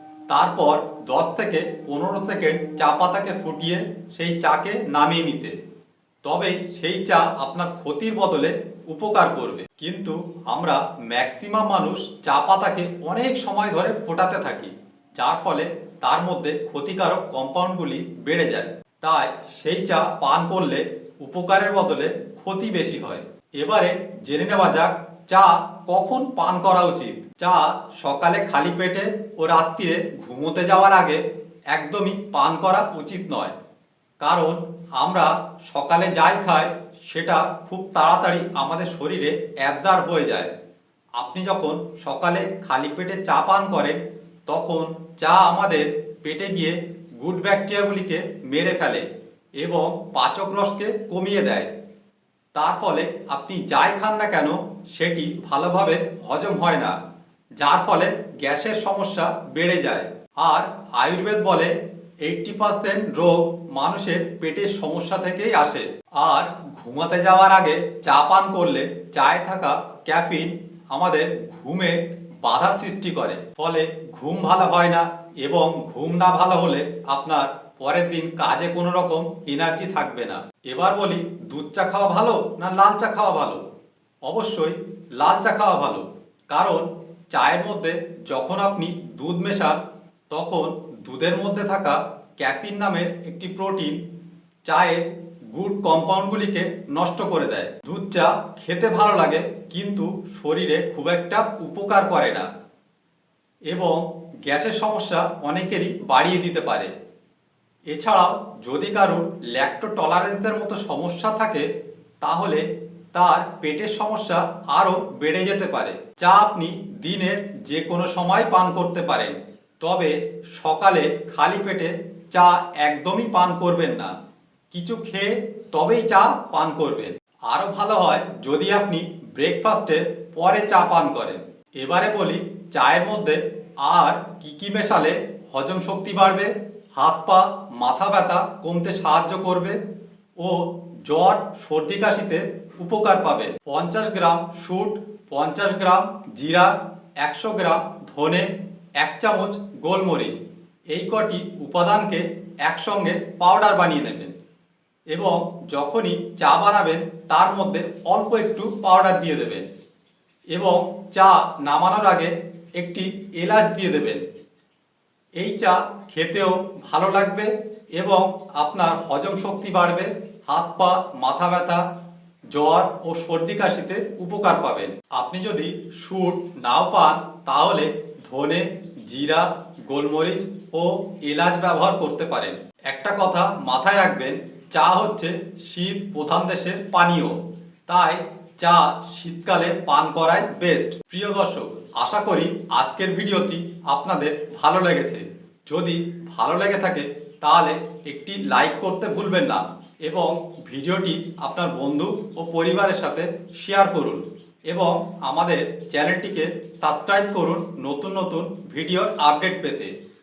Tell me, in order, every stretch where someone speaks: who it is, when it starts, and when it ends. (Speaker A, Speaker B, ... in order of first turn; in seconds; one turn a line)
Speaker A: 0.3-5.6
Speaker A: 6.2-33.5
Speaker A: 34.2-40.5
Speaker A: 41.2-49.1
Speaker A: 49.6-51.7
Speaker A: 52.5-57.0
Speaker A: 57.6-61.7
Speaker A: 62.2-83.6
Speaker A: 84.3-89.8
Speaker A: 90.3-94.0
Speaker A: 94.7-102.5
Speaker A: 103.7-106.9
Speaker A: 107.9-111.7
Speaker A: 112.2-124.1
Speaker A: 124.7-139.8
Speaker A: 140.4-154.3
Speaker A: 155.1-159.7
Speaker A: 160.5-164.2
Speaker A: 165.4-171.8
Speaker A: 172.5-209.9